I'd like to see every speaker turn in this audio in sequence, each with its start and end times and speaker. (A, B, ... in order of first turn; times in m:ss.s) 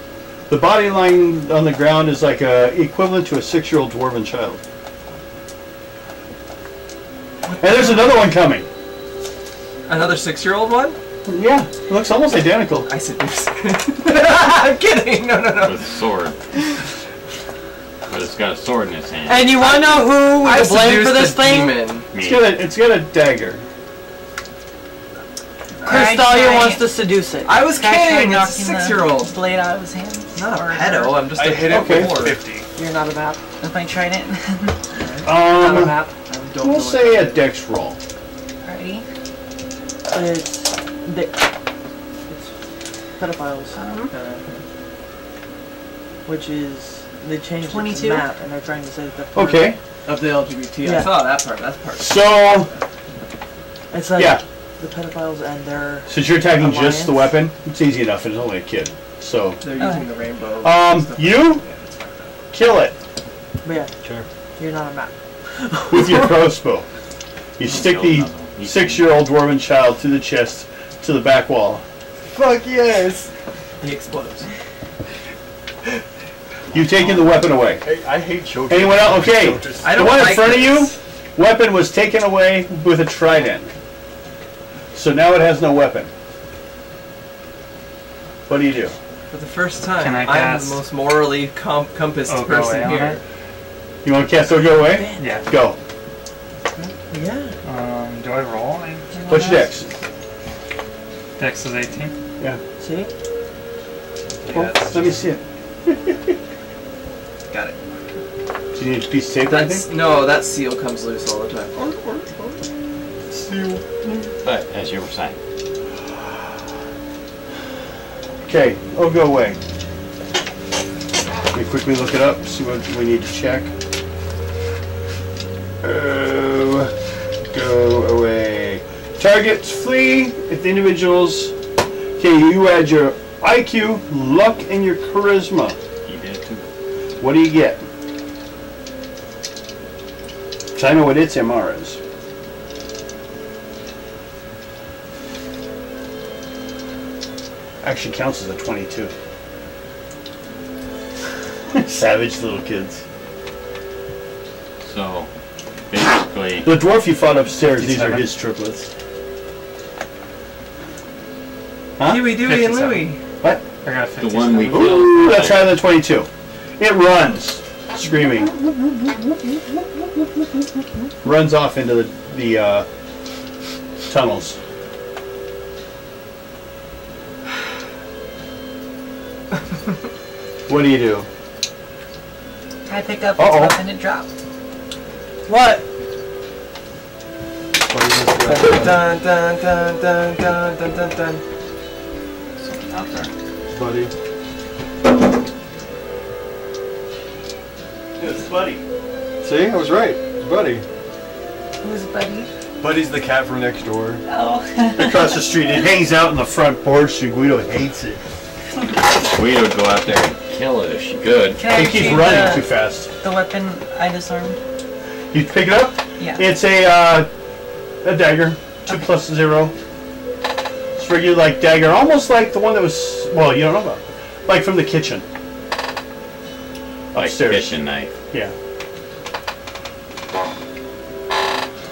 0:00.5-0:04.6 A
0:07.4-0:08.3 B
0:07.6-0:08.7 A
0:09.9-0:11.0 B
0:11.3-0:12.9 A
0:12.8-0:15.8 B
0:15.6-0:16.4 C
0:18.1-0:19.6 C
0:19.3-0:21.8 D
0:19.7-0:22.1 B
0:22.1-0:22.5 C
0:22.2-0:23.6 A
0:25.8-0:26.8 E
0:25.8-0:27.5 D
0:27.5-0:29.4 B
0:27.6-0:31.3 E
0:30.4-0:32.4 B
0:31.2-0:32.7 F
0:31.7-0:32.3 A
0:32.8-0:33.4 D
0:33.6-0:34.8 E
0:35.0-0:37.4 B
0:35.2-0:36.0 A
0:35.6-0:35.9 D
0:36.6-0:38.0 A
0:38.6-0:39.0 E
0:40.1-0:41.5 D
0:43.2-0:43.8 D
0:43.8-0:44.1 E
0:44.1-0:44.6 B
0:46.3-0:49.8 D
0:47.6-0:48.3 E
0:49.3-0:49.8 A
0:50.0-0:52.8 B
0:50.8-0:51.1 D
0:52.0-0:52.7 A
0:53.9-0:57.4 D
0:54.2-0:54.4 A
0:56.1-0:59.6 A
0:59.6-1:02.4 B
0:59.8-1:00.1 E
1:00.6-1:01.6 A
1:02.5-1:03.0 A
1:03.6-1:03.9 D
1:04.6-1:06.5 D
1:05.9-1:06.9 A
1:07.6-1:11.8 A
1:07.7-1:09.1 C
1:12.4-1:13.3 F
1:13.8-1:14.5 B
1:16.7-1:17.8 A
1:17.8-1:20.5 F
1:18.7-1:23.7 A
1:19.8-1:21.0 B
1:24.9-1:26.1 A
1:28.5-1:29.0 A
1:29.3-1:33.2 B
1:30.0-1:30.8 G
1:32.3-1:33.2 G
1:34.0-1:35.8 A
1:35.1-1:35.5 G
1:37.1-1:37.5 D
1:37.6-1:39.1 G
1:39.2-1:39.7 D
1:39.3-1:39.9 A
1:41.4-1:42.1 G
1:42.8-1:43.1 D
1:44.3-1:45.2 F
1:44.4-1:45.2 B
1:44.5-1:46.4 A
1:47.5-1:47.8 B
1:48.8-1:49.9 A
1:49.5-1:51.8 B
1:51.8-1:52.6 F
1:53.3-1:54.3 F
1:54.4-1:55.4 C
1:58.5-1:59.6 A
2:01.5-2:03.7 A
2:05.8-2:06.9 A
2:07.5-2:11.5 A
2:12.2-2:15.8 A
2:16.0-2:16.7 C
2:17.2-2:17.8 A
2:20.8-2:22.0 A
2:27.8-2:29.1 A
2:31.7-2:33.0 A
2:34.8-2:35.3 C
2:35.9-2:36.7 C
2:36.6-2:38.9 A
2:37.7-2:38.3 F
2:42.0-2:42.3 A
2:42.0-2:43.2 B
2:42.3-2:43.1 G
2:43.8-2:45.3 G
2:44.2-2:45.8 C
2:44.7-2:46.3 A
2:46.8-2:49.8 A
2:51.2-2:52.9 A
2:54.1-2:54.6 A
3:00.7-3:01.3 A
3:02.9-3:04.3 E
3:03.4-3:03.8 A
3:05.5-3:05.8 D
3:07.9-3:09.1 F
3:08.4-3:11.4 B
3:12.6-3:13.3 C
3:13.7-3:14.1 A
3:18.2-3:18.8 A
3:19.4-3:20.8 F
3:19.4-3:19.8 A
3:21.8-3:22.5 E
3:22.8-3:24.2 F
3:24.3-3:25.9 E
3:25.0-3:28.2 A
3:29.0-3:31.8 C
3:31.6-3:34.6 E
3:31.7-3:33.1 A
3:35.3-3:37.3 A
3:36.2-3:36.5 E
3:38.0-3:39.7 A
3:41.0-3:45.2 A
3:47.1-3:47.8 A
3:47.2-3:48.1 C